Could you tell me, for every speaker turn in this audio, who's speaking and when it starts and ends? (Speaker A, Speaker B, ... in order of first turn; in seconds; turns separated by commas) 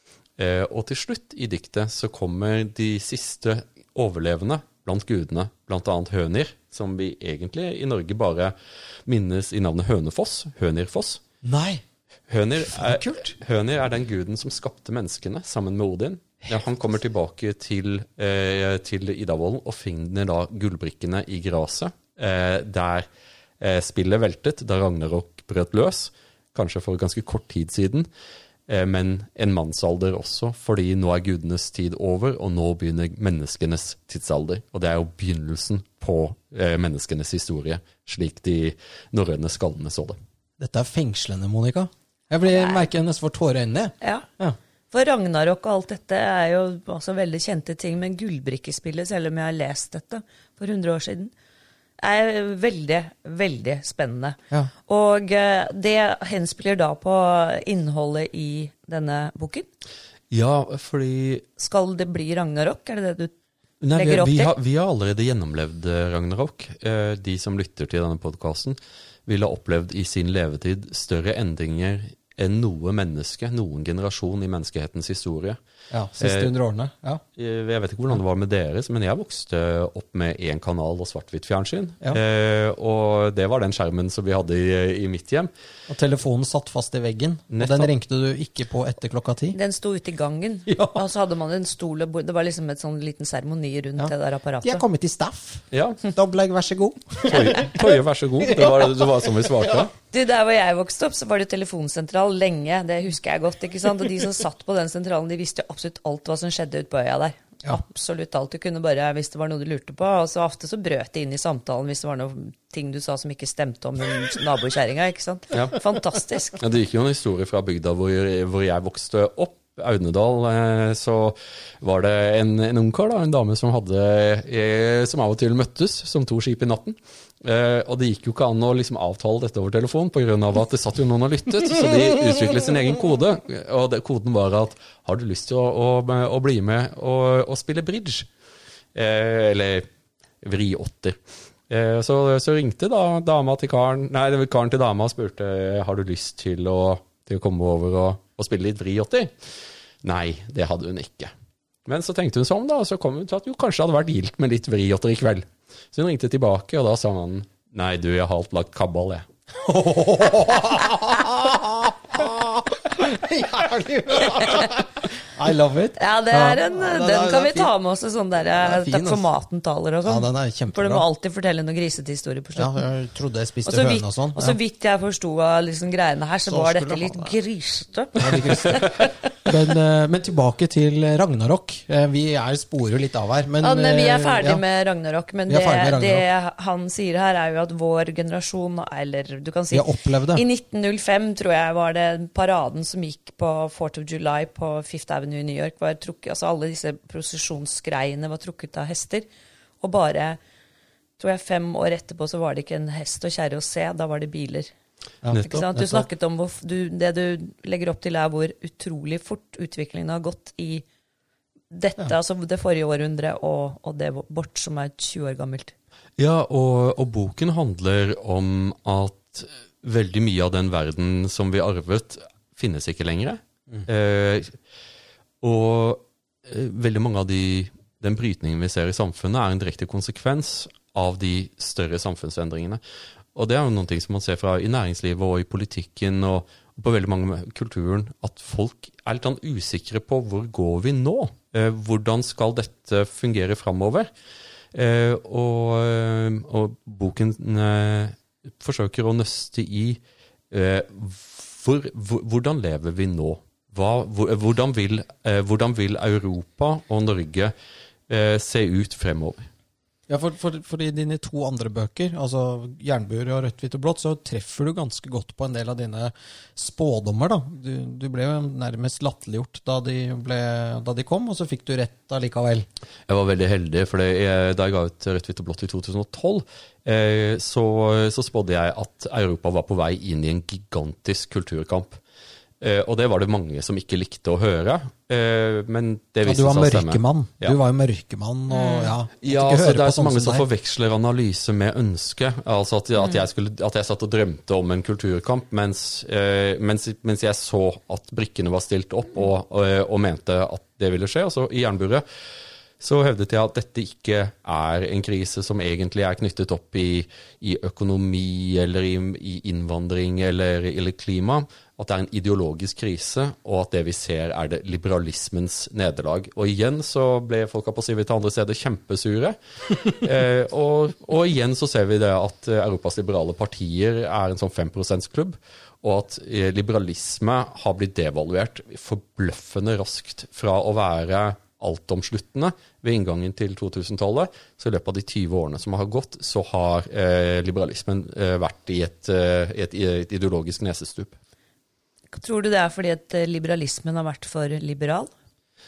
Speaker A: 0.4-8.5, Speaker A: 9.1-11.3, Speaker B: 11.4-11.8, Speaker A: 12.3-23.1, Speaker B: 12.6-13.3, Speaker A: 23.6-28.1, Speaker A: 28.7-40.2, Speaker B: 40.6-44.6, Speaker C: 42.5-42.9, Speaker C: 44.0-44.2, Speaker C: 44.9-51.3, Speaker C: 52.0-59.7, Speaker A: 60.3-61.5, Speaker C: 61.6-63.3, Speaker A: 63.8-75.6, Speaker C: 63.9-64.5, Speaker B: 75.9-77.2, Speaker A: 76.2-76.5, Speaker A: 77.4-85.5, Speaker B: 85.9-89.6, Speaker A: 87.5-87.9, Speaker C: 89.5-94.8, Speaker B: 90.7-91.0, Speaker B: 94.0-99.9, Speaker A: 95.7-96.0, Speaker A: 97.3-99.9, Speaker C: 100.1-116.6, Speaker A: 116.6-138.3, Speaker A: 138.9-139.9, Speaker A: 140.4-141.2, Speaker A: 141.7-151.3, Speaker A: 151.8-159.3, Speaker B: 159.6-167.7, Speaker C: 166.0-172.8, Speaker B: 168.5-169.2, Speaker B: 170.1-171.0, Speaker B: 172.6-174.6, Speaker C: 173.7-179.1, Speaker B: 176.5-177.3, Speaker B: 178.2-178.9, Speaker B: 179.4-184.6, Speaker C: 183.6-199.3, Speaker B: 185.5-186.2, Speaker B: 189.7-190.4, Speaker C: 199.8-200.4, Speaker C: 201.2-204.7, Speaker B: 205.2-206.1, Speaker C: 205.3-210.8, Speaker C: 211.7-215.7, Speaker A: 216.2-224.6, Speaker A: 225.4-232.8, Speaker A: 233.3-244.1, Speaker A: 244.7-250.0, Speaker A: 250.5-257.5, Speaker A: 258.1-259.5, Speaker B: 260.1-272.7, Speaker A: 273.1-282.0, Speaker A: 282.6-287.6, Speaker B: 286.2-290.5, Speaker C: 288.5-288.9, Speaker A: 289.2-302.0, Speaker A: 302.8-341.2, Speaker C: 342.1-345.1